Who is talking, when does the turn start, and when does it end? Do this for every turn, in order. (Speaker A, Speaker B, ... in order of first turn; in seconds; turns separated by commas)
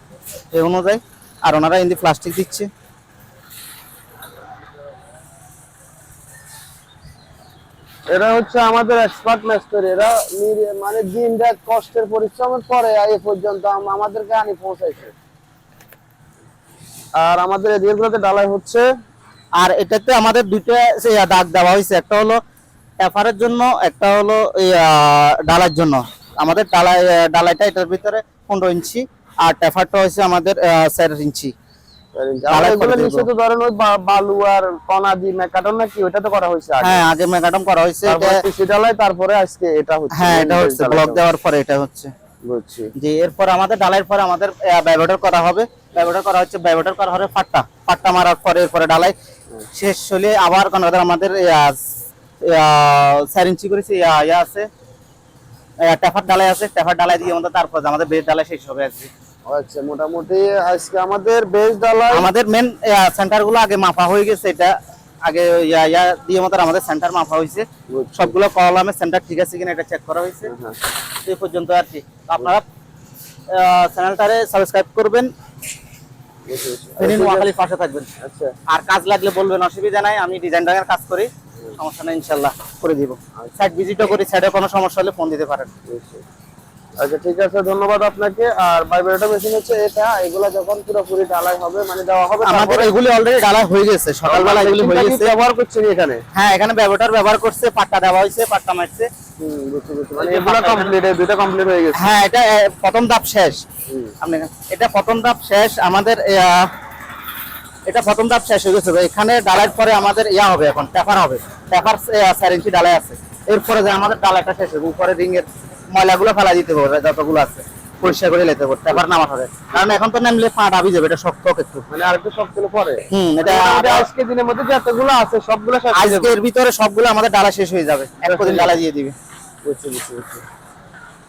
Speaker A: 0.5-2.7, Speaker B: 8.1-15.1, Speaker B: 17.2-18.9, Speaker A: 19.6-22.4, Speaker A: 23.0-31.5, Speaker B: 32.1-37.0, Speaker A: 32.5-33.3, Speaker A: 36.8-38.4, Speaker B: 38.0-41.2, Speaker A: 40.1-42.1, Speaker B: 42.4-42.9, Speaker A: 43.0-49.1, Speaker A: 49.7-51.8, Speaker A: 52.4-54.7, Speaker A: 55.8-59.1, Speaker B: 59.5-62.3, Speaker A: 62.1-67.7, Speaker B: 67.9-68.3, Speaker A: 68.2-70.5, Speaker B: 70.5-70.8, Speaker A: 71.2-72.6, Speaker A: 73.5-75.3, Speaker B: 76.5-77.5, Speaker A: 77.0-78.1, Speaker B: 78.2-78.5, Speaker A: 78.7-85.7, Speaker B: 85.9-86.2, Speaker B: 87.0-92.9, Speaker A: 92.4-95.3, Speaker B: 94.2-96.2, Speaker A: 96.3-99.1, Speaker B: 99.4-102.0, Speaker A: 100.2-100.9, Speaker A: 101.9-103.6, Speaker B: 103.9-104.1, Speaker A: 104.2-106.7, Speaker A: 107.8-121.8, Speaker B: 119.7-120.0, Speaker B: 121.9-126.3, Speaker A: 123.1-124.1, Speaker A: 125.9-129.1, Speaker B: 128.2-128.8, Speaker B: 129.6-130.4